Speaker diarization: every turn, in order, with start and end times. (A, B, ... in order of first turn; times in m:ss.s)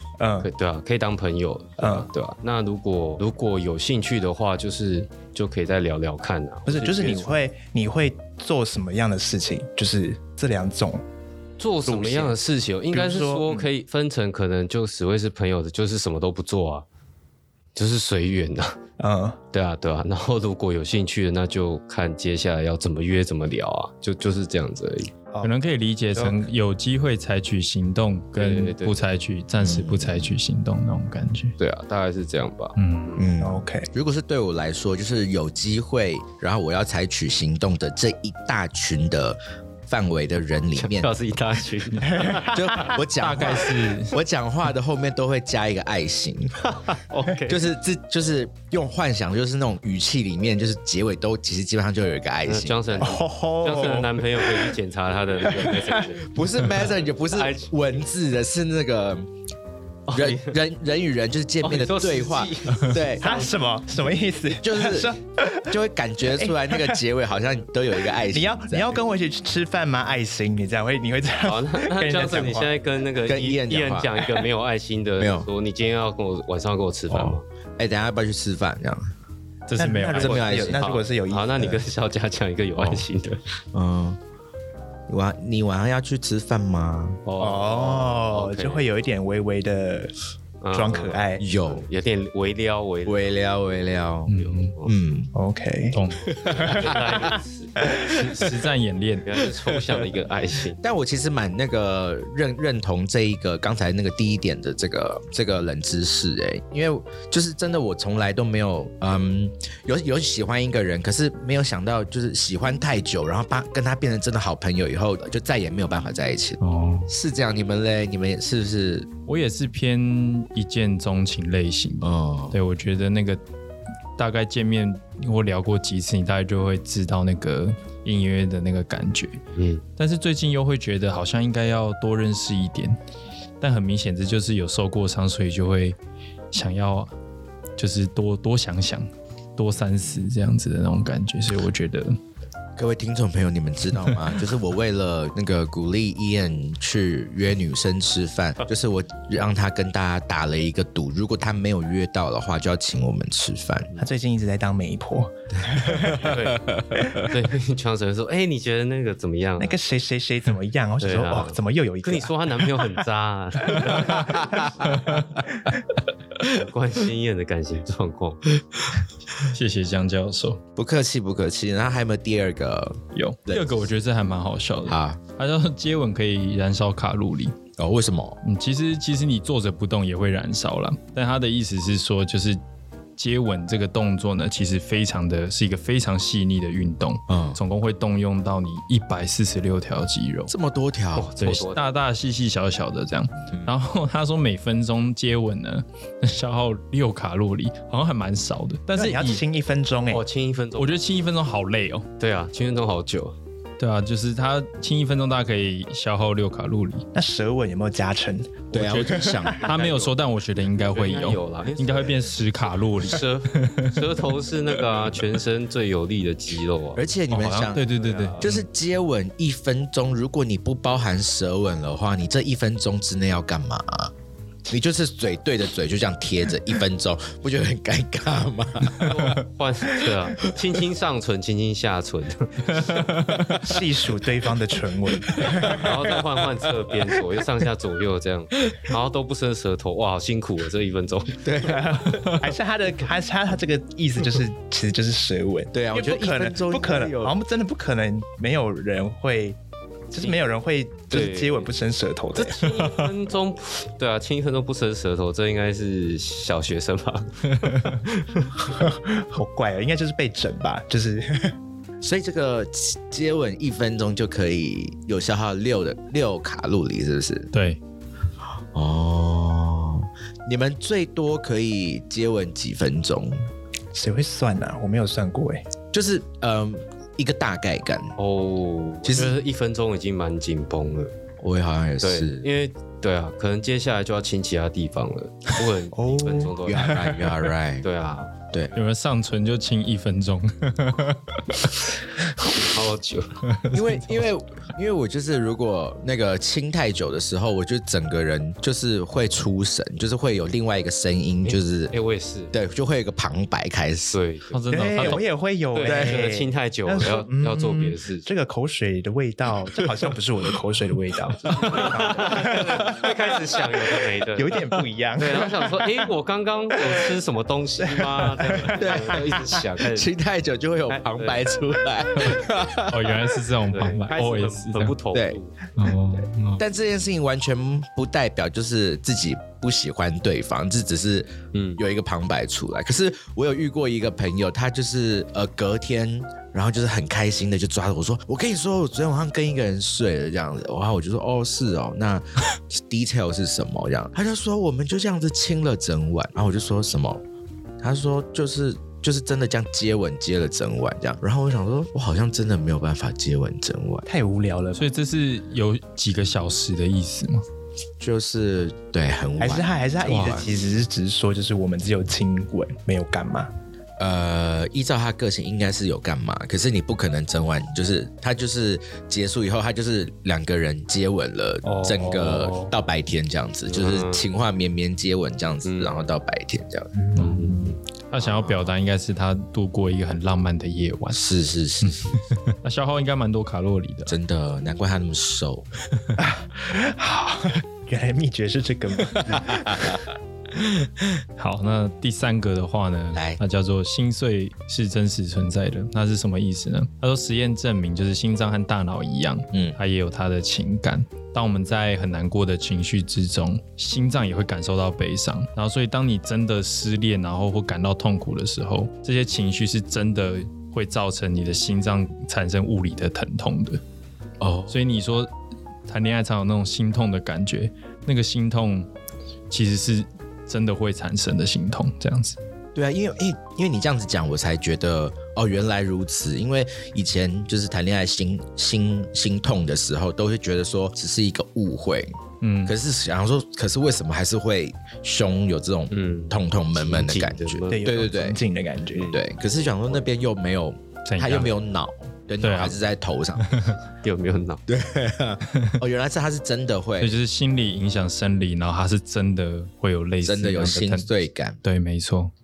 0:00.2-0:00.5 A
0:00.4-0:07.4 B
0:01.8-0:02.1 A
0:06.6-0:11.0 A
0:11.6-0:16.8 B
0:11.8-0:12.4 A
0:12.9-0:13.7 A
0:17.7-0:18.8 B
0:19.0-0:19.4 A
0:19.5-0:25.1 B
0:25.4-0:31.5 C
0:26.1-0:26.4 B
0:28.4-0:29.0 B
0:29.6-0:30.3 D
0:31.6-0:33.3 B
0:32.8-0:33.2 C
0:33.2-0:41.1 D
0:33.4-0:33.9 A
0:40.7-0:42.8 B
0:42.1-0:42.9 A
0:42.5-0:46.6 D
0:43.1-0:44.1 C
0:46.6-0:47.6 B
0:47.5-0:53.1 D
0:52.4-0:58.0 B
0:53.0-0:54.8 A
0:55.4-0:56.1 A
0:56.3-0:59.3 D
1:00.1-1:00.6 B
1:00.1-1:03.3 D
1:01.6-1:03.6 B
1:03.2-1:07.0 A
1:04.6-1:09.0 D
1:08.3-1:12.7 A
1:11.4-1:17.4 B
1:13.2-1:14.2 D
1:15.2-1:15.5 D
1:17.1-1:19.1 D
1:19.7-1:20.4 C
1:19.8-1:21.8 A
1:20.2-1:20.8 D
1:20.2-1:23.4 B
1:22.8-1:23.0 D
1:23.7-1:24.2 D
1:25.1-1:27.2 D
1:27.2-1:28.9 B
1:27.4-1:30.1 A
1:30.6-1:33.6 B
1:30.7-1:31.4 A
1:31.4-1:31.8 D
1:33.0-1:34.3 D
1:34.3-1:34.7 C
1:34.3-1:34.9 B
1:34.8-1:35.3 D
1:35.3-1:36.0 A
1:35.9-1:36.3 C
1:36.2-1:38.5 D
1:36.4-1:37.8 B
1:36.6-1:37.9 A
1:38.0-1:39.3 C
1:39.2-1:40.8 B
1:39.4-1:40.0 D
1:40.8-1:59.1 D
1:56.6-1:57.1 C
1:59.3-2:03.4 C
2:02.0-2:02.5 D
2:04.2-2:09.4 C
2:09.6-2:09.8 B
2:10.0-2:13.0 C
2:13.6-2:16.0 C
2:16.5-2:17.1 C
2:17.8-2:22.2 C
2:22.8-2:33.9 D
2:34.0-2:36.3 A
2:35.6-2:37.3 D
2:36.1-2:39.8 B
2:39.6-2:42.3 A
2:41.0-2:44.7 B
2:43.7-2:44.6 A
2:44.0-2:44.9 D
2:44.8-2:45.4 C
2:46.5-2:48.5 B
2:49.4-2:50.6 C
2:50.8-2:53.8 D
2:53.1-2:57.6 C
2:54.9-2:55.2 D
2:57.8-2:58.4 D
2:58.4-3:02.6 C
3:03.2-3:10.5 C
3:07.3-3:07.6 D
3:10.5-3:11.6 D
3:11.1-3:11.9 B
3:11.4-3:19.4 C
3:18.9-3:20.2 A
3:20.1-3:20.9 B
3:20.8-3:22.1 C
3:22.2-3:23.4 B
3:23.8-3:27.0 C
3:27.1-3:29.5 A
3:28.7-3:29.7 D
3:28.7-3:34.3 C
3:29.6-3:32.4 B
3:33.0-3:37.0 B
3:36.9-3:37.8 D
3:37.3-3:38.6 C
3:37.8-3:38.5 B
3:38.4-3:44.1 D
3:44.7-3:49.4 D
3:49.0-3:53.0 B
3:52.7-3:53.6 C
3:53.6-3:55.9 A
3:55.4-4:01.6 B
4:01.4-4:02.1 D
4:01.6-4:09.6 A
4:02.2-4:02.5 C
4:05.7-4:07.3 D
4:10.1-4:12.7 A
4:11.1-4:11.7 B
4:12.3-4:18.7 B
4:12.8-4:13.1 C
4:17.6-4:18.0 C
4:18.7-4:21.5 A
4:22.0-4:27.5 D
4:27.5-4:27.8 C
4:28.7-4:33.5 D
4:33.9-4:35.7 A
4:35.9-4:38.1 D
4:38.2-4:41.1 B
4:39.0-4:39.4 D
4:41.4-4:42.4 D
4:42.0-4:47.1 B
4:45.9-4:47.3 A
4:46.6-4:47.8 D
4:47.8-4:48.4 B
4:48.7-4:51.7 C
4:52.4-4:53.4 B
4:53.4-4:54.3 C
4:53.7-5:01.9 D
5:01.4-5:02.5 B
5:02.5-5:04.2 D
5:04.1-5:05.2 B
5:04.5-5:05.2 C
5:04.7-5:13.3 A
5:05.7-5:08.3 B
5:05.8-5:06.2 D
5:11.6-5:14.6 B
5:14.3-5:16.0 A
5:15.2-5:20.1 B
5:17.8-5:19.5 A
5:18.7-5:23.3 D
5:20.9-5:21.5 B
5:22.9-5:24.9 C
5:23.7-5:25.7 B
5:25.1-5:25.4 D
5:25.8-5:26.6 C
5:26.6-5:47.2 D
5:31.5-5:31.8 B
5:47.8-5:54.1 D
5:54.1-5:54.8 A
5:54.7-5:57.4 C
5:58.0-6:00.5 D
5:59.4-6:03.5 A
6:00.1-6:00.4 C
6:04.0-6:16.9 D
6:11.7-6:12.7 B
6:13.7-6:14.2 B
6:15.6-6:16.1 B
6:17.0-6:17.8 B
6:17.1-6:21.2 C
6:18.2-6:18.7 D
6:21.1-6:22.2 D
6:21.8-6:24.2 C
6:24.1-6:25.7 D
6:26.2-6:29.9 A
6:29.3-6:29.8 D
6:30.6-6:31.0 D
6:31.4-6:53.8 C
6:33.1-6:33.4 D
6:39.5-6:39.8 D
6:54.4-6:54.8 D
6:54.7-6:55.3 C
6:55.9-6:58.9 C
6:59.5-7:02.4 C
7:02.7-7:12.1 D
7:12.4-7:12.7 C
7:12.6-7:18.4 D
7:15.9-7:17.9 B
7:17.7-7:19.1 A
7:18.9-7:20.0 B
7:19.0-7:23.7 D
7:21.0-7:21.5 C
7:22.4-7:22.8 C
7:23.4-7:23.8 C
7:24.0-7:24.6 B
7:24.7-7:27.1 D
7:25.5-7:25.8 C
7:27.0-7:31.1 C
7:30.2-7:31.6 D
7:31.6-7:32.3 C